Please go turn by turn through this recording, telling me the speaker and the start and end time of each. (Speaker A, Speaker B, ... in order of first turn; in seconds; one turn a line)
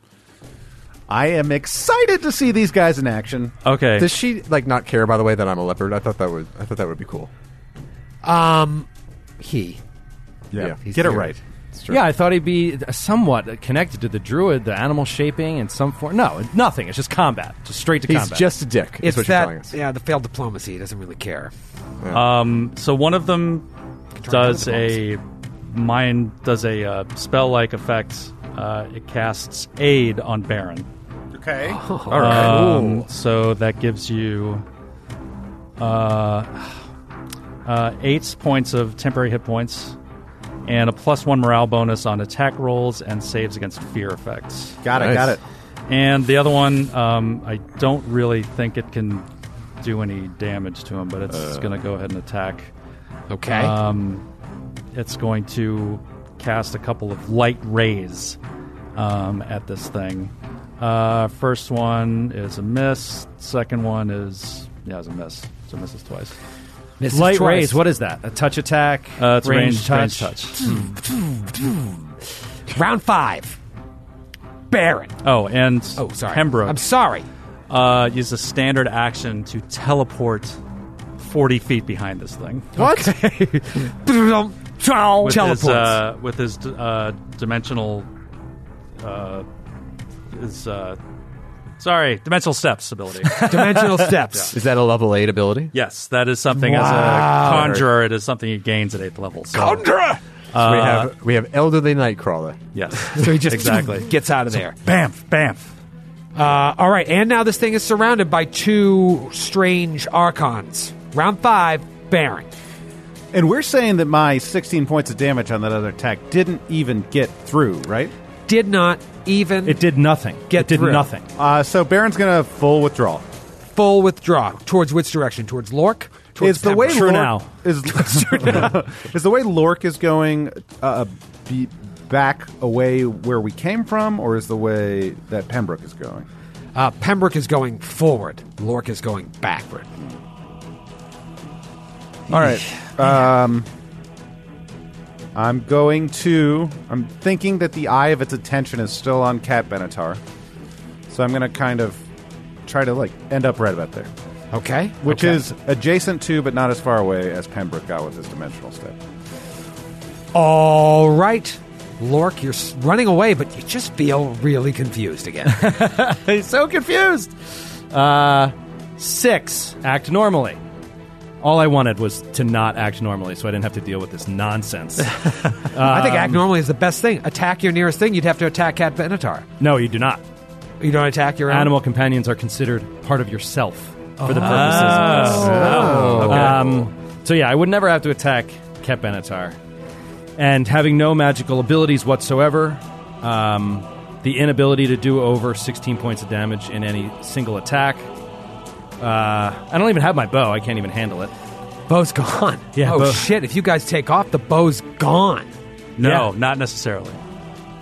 Speaker A: 1.1-3.5
Speaker B: 3.6-4.1
Speaker C: 4.0-7.3
Speaker D: 8.2-8.9
Speaker D: 9.4-9.8
Speaker A: 10.5-11.4
Speaker C: 10.5-12.1
Speaker D: 10.8-11.3
Speaker E: 11.9-18.5
Speaker C: 18.1-19.7
Speaker D: 19.0-21.5
Speaker C: 22.0-22.3
Speaker B: 22.1-23.6
Speaker D: 24.2-25.0
Speaker B: 24.2-30.9
Speaker A: 31.3-32.4
Speaker D: 31.6-33.0
Speaker B: 32.1-34.6
Speaker B: 35.8-36.7
Speaker B: 37.6-40.0
Speaker B: 40.6-45.3
Speaker A: 44.8-45.4
Speaker C: 45.0-45.3
Speaker B: 45.9-49.2
Speaker B: 49.8-52.7
Speaker D: 53.3-53.7
Speaker B: 53.5-54.2
Speaker B: 54.9-58.4
Speaker B: 59.0-66.3
Speaker D: 67.0-67.8
Speaker E: 67.1-70.4
Speaker B: 69.2-70.8
Speaker D: 70.6-71.9
Speaker D: 72.7-73.6
Speaker D: 74.7-75.2
Speaker B: 75.2-76.8
Speaker D: 76.0-77.3
Speaker B: 77.7-80.6
Speaker B: 81.2-83.0
Speaker D: 82.8-86.0
Speaker E: 84.8-85.3
Speaker B: 85.2-88.1
Speaker B: 89.0-89.5
Speaker B: 90.3-91.0
Speaker B: 91.8-93.5
Speaker E: 93.3-94.1
Speaker D: 93.4-94.5
Speaker C: 94.5-95.7
Speaker B: 95.7-99.9
Speaker D: 96.5-97.8
Speaker C: 97.4-97.8
Speaker D: 99.5-100.2
Speaker B: 100.5-101.1
Speaker C: 100.5-102.6
Speaker B: 102.7-105.7
Speaker D: 103.0-104.8
Speaker D: 106.3-112.5
Speaker A: 113.3-118.1
Speaker D: 118.5-119.8
Speaker E: 119.6-121.2
Speaker D: 120.5-121.1
Speaker A: 121.3-123.2
Speaker D: 123.7-127.3
Speaker A: 126.4-136.2
Speaker E: 126.8-127.5
Speaker D: 127.8-128.8
Speaker D: 136.7-139.9
Speaker A: 142.3-143.7
Speaker B: 142.3-142.8
Speaker A: 145.3-150.2
Speaker A: 151.1-152.0
Speaker A: 152.7-154.1
Speaker D: 154.5-155.4
Speaker A: 155.0-158.9
Speaker D: 160.3-165.7
Speaker E: 165.4-170.6
Speaker E: 171.4-176.4
Speaker D: 175.8-179.4
Speaker E: 179.6-180.2
Speaker D: 180.8-181.7
Speaker E: 181.5-189.6
Speaker D: 184.2-186.4
Speaker B: 184.3-186.8
Speaker A: 185.4-186.4
Speaker C: 185.7-186.6
Speaker E: 190.4-198.1
Speaker E: 199.0-201.3
Speaker D: 201.9-205.5
Speaker E: 202.7-203.3
Speaker B: 206.0-207.2
Speaker E: 206.0-206.3